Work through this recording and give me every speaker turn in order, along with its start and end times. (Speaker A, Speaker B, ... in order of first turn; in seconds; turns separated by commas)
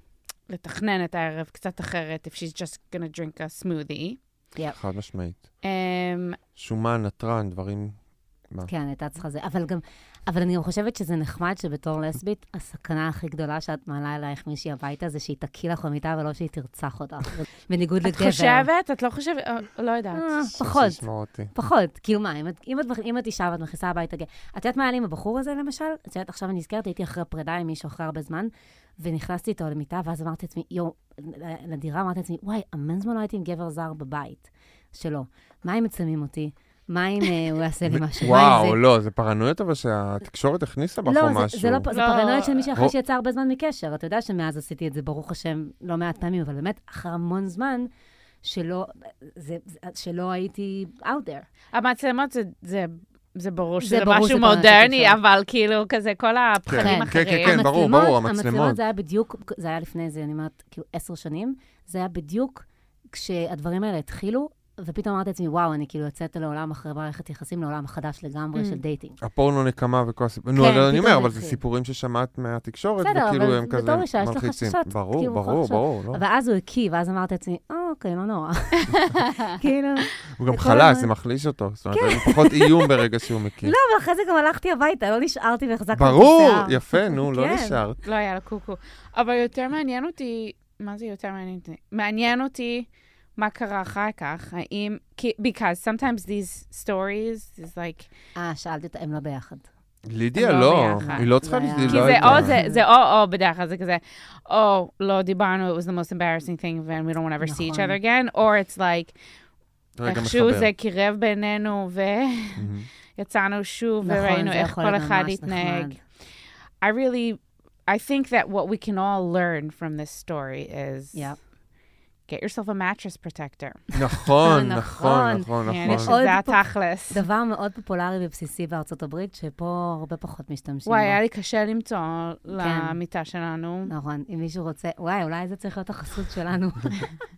Speaker A: 0.5-4.2, Speaker B: 4.8-5.5, Speaker A: 5.6-6.4, Speaker B: 6.5-8.0, Speaker C: 8.7-18.7, Speaker A: 18.0-20.4, Speaker C: 20.1-38.8, Speaker B: 20.6-21.5, Speaker B: 37.9-41.9, Speaker C: 41.0-47.9, Speaker A: 41.9-42.7, Speaker C: 48.4-51.5, Speaker A: 51.7-57.6, Speaker C: 53.8-55.2, Speaker B: 56.7-58.8, Speaker C: 56.8-69.2, Speaker A: 68.5-68.8, Speaker B: 69.2-76.2, Speaker C: 70.5-71.6, Speaker C: 73.0-81.1, Speaker A: 78.9-79.5, Speaker B: 80.4-83.7, Speaker C: 81.9-83.0, Speaker C: 83.6-87.8, Speaker B: 85.9-88.0, Speaker A: 88.0-98.1, Speaker C: 98.3-99.7, Speaker B: 100.0-102.6, Speaker A: 100.3-101.3, Speaker C: 101.0-102.8, Speaker A: 101.9-109.1, Speaker C: 107.4-108.0, Speaker B: 110.0-110.7, Speaker A: 110.0-116.0, Speaker B: 112.5-112.9, Speaker C: 114.0-116.0, Speaker A: 116.8-121.3, Speaker A: 122.3-123.8, Speaker B: 123.9-126.2, Speaker C: 124.4-131.2, Speaker A: 125.7-127.2, Speaker A: 130.8-133.9, Speaker C: 132.5-133.0, Speaker C: 133.9-137.1